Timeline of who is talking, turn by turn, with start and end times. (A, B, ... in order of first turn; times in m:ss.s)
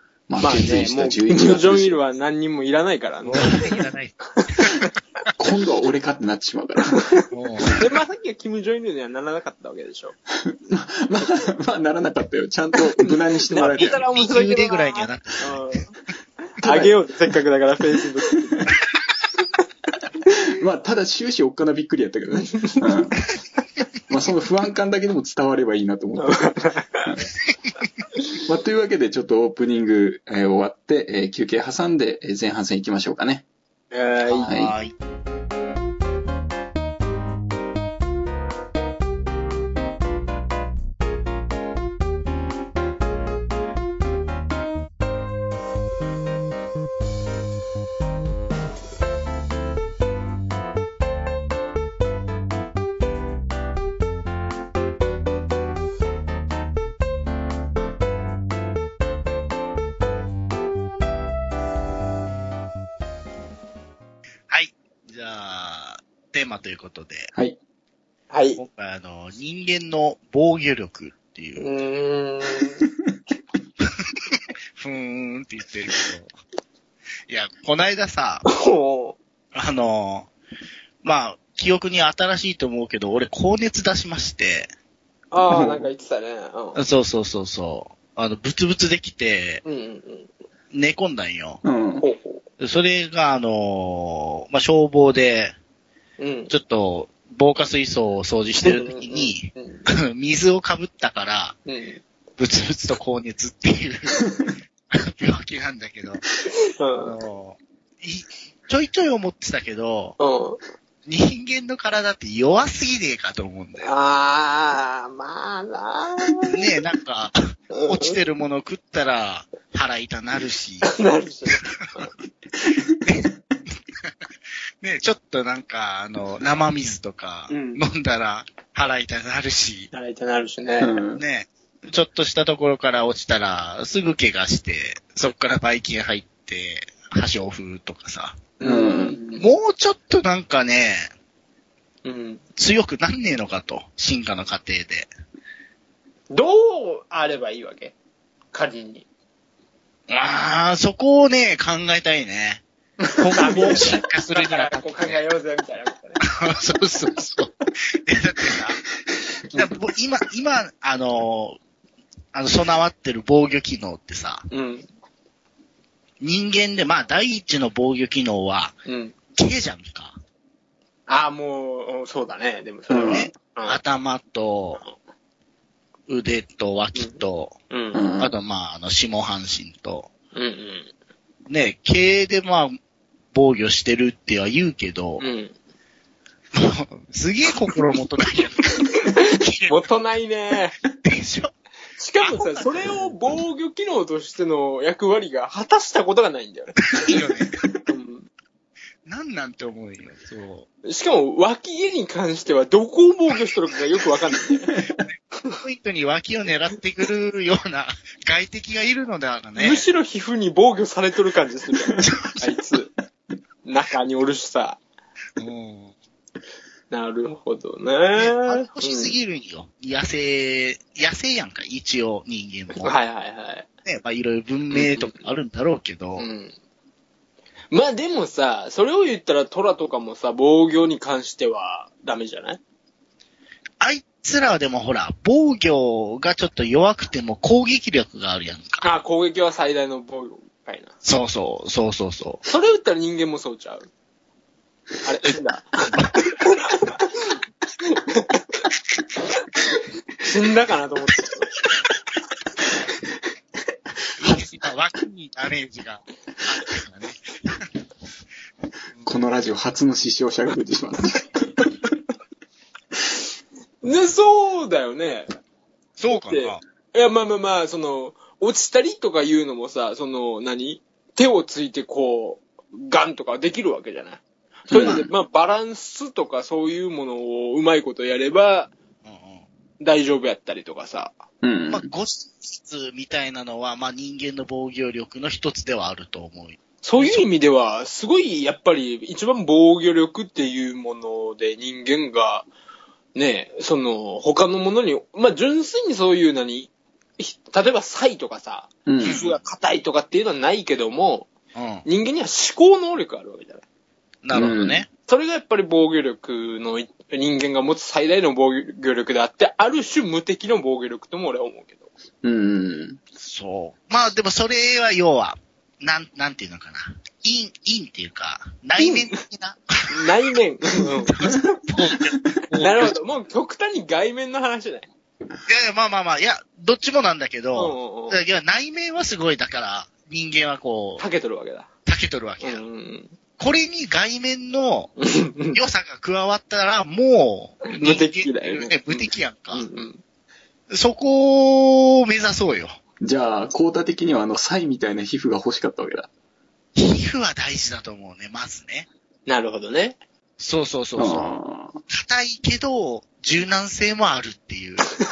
0:00.3-0:02.0 A
0:00.4-0:03.8 B
0:03.2-0:04.8 C
0:04.4-0:04.9 B
0:05.4-0:07.0 A
0:06.9-0:10.2 B
0:07.3-0:07.9 C
0:10.3-0:14.0 A
0:13.0-0:15.9 B
0:13.6-0:15.6 C
0:16.6-0:16.9 A
0:16.6-0:18.7 B
0:20.3-0:23.2 A
0:22.5-0:23.1 B
0:24.1-0:26.4 A
0:26.2-0:27.1 B
0:28.4-0:33.4 A
0:33.9-0:34.5 B
0:34.3-0:34.9 C
0:34.5-0:34.7 A
1:04.5-1:07.3 C
1:08.3-1:08.6 B
1:08.6-1:11.7 C
1:11.6-1:12.8 B
1:14.3-1:16.3 C
1:17.3-1:18.4 C
1:18.5-1:19.2 B
1:19.5-1:20.3 C
1:21.0-1:24.7 C
1:25.3-1:26.8 B
1:25.5-1:25.9 A
1:26.8-1:29.6 C
1:29.6-1:30.3 B
1:30.7-1:31.6 C
1:31.6-1:32.1 A
1:32.0-1:32.4 B
1:32.6-1:35.6 C
1:36.2-1:36.5 B
1:36.5-1:41.6 C
1:38.6-1:39.8 B
1:41.7-1:42.0 B
1:42.4-1:44.3 C
1:44.9-1:46.3 C
1:46.7-1:47.2 B
1:47.0-1:50.2 C
1:50.2-1:50.6 B
1:51.1-1:53.9 C
1:53.8-1:56.8 B
1:56.5-2:01.0 C
1:57.7-1:58.2 B
2:00.8-2:02.1 B
2:01.6-2:02.0 C
2:02.6-2:03.0 A
2:04.8-2:09.9 C
2:07.5-2:07.8 B
2:09.9-2:11.0 B
2:10.8-2:11.2 A
2:11.2-2:18.4 C
2:18.6-2:19.5 B
2:18.6-2:19.2 A
2:19.4-2:21.1 C
2:22.0-2:22.4 B
2:22.6-2:25.1 C
2:26.3-2:27.9 B
2:28.5-2:29.0 B
2:30.1-2:35.2 C
2:33.0-2:36.2 B
2:36.3-2:38.8 C
2:39.5-2:41.6 C
2:42.3-2:44.5 C
2:44.5-2:44.8 B
2:46.2-2:48.8 C
2:48.8-2:49.1 B
2:49.3-2:50.2 C
2:51.1-2:53.8 B
2:52.9-2:53.3 A
2:53.1-2:54.8 C
2:56.1-2:57.6 C
2:56.9-2:58.0 B
2:57.9-2:58.3 A
2:58.2-3:00.1 C
3:00.3-3:00.9 B
3:01.5-3:02.8 C
3:03.3-3:05.2 C
3:05.2-3:05.5 B
3:06.5-3:09.8 C
3:09.0-3:10.8 B
3:11.0-3:11.5 C
3:12.0-3:16.8 B
3:12.2-3:13.1 C
3:16.9-3:17.6 C
3:17.9-3:18.3 B
3:19.1-3:20.7 C
3:20.8-3:24.7 B
3:24.7-3:25.0 A
3:25.5-3:29.8 C
3:29.6-3:32.9 B
3:32.0-3:32.5 C
3:33.6-3:34.8 B
3:35.4-3:35.9 C
3:36.9-3:39.2 B
3:38.2-3:43.0 C
3:42.7-3:43.7 B
3:43.8-3:46.3 C
3:44.7-3:45.2 B
3:46.2-3:46.5 B
3:47.7-3:52.6 B
3:53.8-3:58.8 C
3:58.8-4:00.9 B
4:01.0-4:02.4 C
4:02.4-4:03.9 B
4:05.0-4:08.4 B
4:10.2-4:11.5 B
4:14.2-4:17.6 C
4:19.0-4:21.5 A
4:23.8-4:25.3 B
4:26.0-4:26.6 C
4:26.1-4:38.7 B
4:34.7-4:35.1 A
4:34.7-4:35.1 C
4:39.0-4:39.4 C
4:39.8-4:41.2 B
4:41.4-4:41.9 A
4:41.7-4:47.3 C
4:46.8-4:52.5 B
4:53.2-5:01.3 B
4:58.8-4:59.2 A
4:59.0-4:59.4 C
5:01.6-5:01.8 C
5:01.8-5:03.6 B
5:04.2-5:04.9 C
5:04.3-5:04.8 A
5:05.1-5:11.9 B
5:12.2-5:13.0 A
5:13.2-5:20.1 C
5:18.8-5:19.2 B
5:19.9-5:21.2 B
5:21.1-5:23.0 C
5:22.5-5:24.9 B
5:25.5-5:31.0 C
5:27.6-5:28.2 B
5:31.0-5:31.7 B
5:31.8-5:32.6 C
5:32.4-5:33.1 B
5:33.4-5:34.9 C
5:35.0-5:35.6 B
5:35.5-5:39.7 C
5:37.7-5:40.0 B
5:40.7-5:42.7 C
5:43.0-5:46.1 A
5:46.8-5:48.9 C
5:49.3-5:50.0 B
5:50.4-5:51.3 C
5:51.0-5:51.8 A
5:51.9-5:55.0 C